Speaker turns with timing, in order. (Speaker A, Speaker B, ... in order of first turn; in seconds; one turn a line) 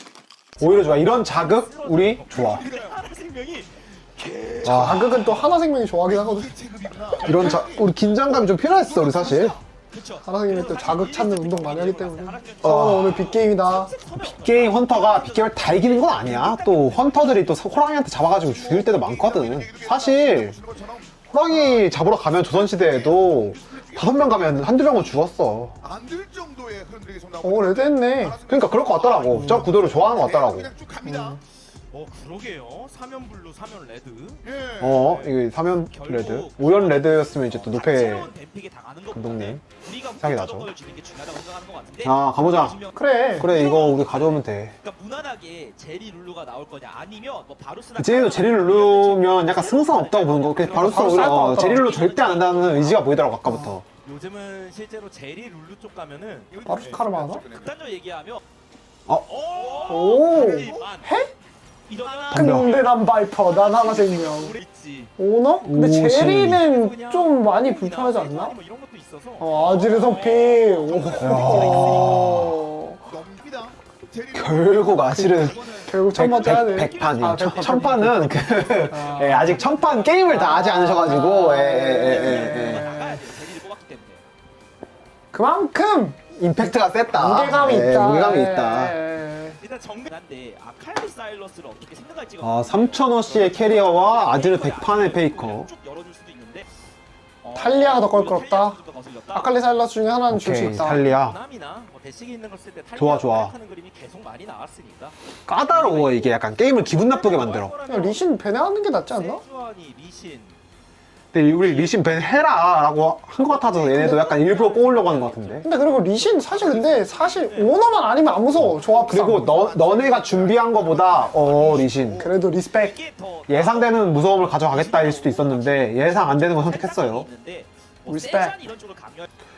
Speaker A: 0.6-2.6
Speaker B: 1.1-5.1
Speaker C: 2.3-3.1
Speaker A: 4.6-5.3
Speaker D: 4.6-6.5
Speaker C: 6.1-7.9
Speaker A: 7.2-9.6
Speaker B: 7.2-7.7
Speaker B: 8.8-17.4
Speaker D: 10.2-13.9
Speaker A: 12.6-13.3
Speaker A: 14.2-20.6
Speaker C: 18.3-25.0
Speaker A: 21.3-25.8
Speaker C: 25.8-31.4
Speaker D: 27.4-28.4
Speaker A: 28.5-30.7
Speaker D: 29.3-29.7
Speaker D: 31.0-31.4
Speaker B: 31.9-34.4
Speaker C: 34.4-35.3
Speaker A: 34.8-38.3
Speaker B: 35.9-53.3
Speaker A: 39.1-39.6
Speaker A: 40.2-40.7
Speaker A: 42.0-42.8
Speaker D: 42.9-43.5
Speaker A: 43.4-44.7
Speaker A: 48.0-53.8
Speaker D: 50.7-51.9
Speaker B: 54.0-58.4
Speaker C: 56.5-57.8
Speaker D: 56.6-57.4
Speaker B: 59.3-61.1
Speaker C: 59.4-60.9
Speaker D: 59.9-61.3
Speaker B: 61.9-65.1
Speaker C: 61.9-62.3
Speaker A: 62.3-62.8
Speaker D: 62.3-64.6
Speaker D: 65.2-68.5
Speaker A: 65.6-66.6
Speaker B: 66.5-72.3
Speaker D: 69.4-73.0
Speaker C: 69.8-72.2
Speaker A: 71.2-72.6
Speaker C: 73.0-76.0
Speaker A: 74.3-82.9
Speaker D: 75.0-79.6
Speaker B: 76.2-80.5
Speaker D: 80.2-83.2
Speaker B: 81.8-84.2
Speaker D: 85.3-89.6
Speaker A: 86.3-89.0
Speaker B: 89.6-96.7
Speaker A: 92.4-95.7
Speaker B: 97.4-99.6
Speaker D: 97.5-98.8
Speaker D: 99.3-101.0
Speaker A: 100.3-101.4
Speaker B: 100.7-108.2
Speaker A: 102.9-103.5
Speaker A: 105.5-107.7
Speaker D: 107.9-109.4
Speaker B: 109.1-110.5
Speaker A: 111.3-115.7
Speaker B: 111.6-112.0
Speaker B: 113.4-115.7
Speaker D: 114.0-114.3
Speaker D: 115.6-119.6
Speaker C: 116.5-117.3
Speaker B: 116.5-117.7
Speaker A: 118.6-122.2
Speaker B: 118.8-120.6
Speaker C: 118.8-122.3
Speaker D: 122.2-123.0
Speaker B: 122.7-129.3
Speaker A: 123.5-127.3
Speaker D: 128.1-128.6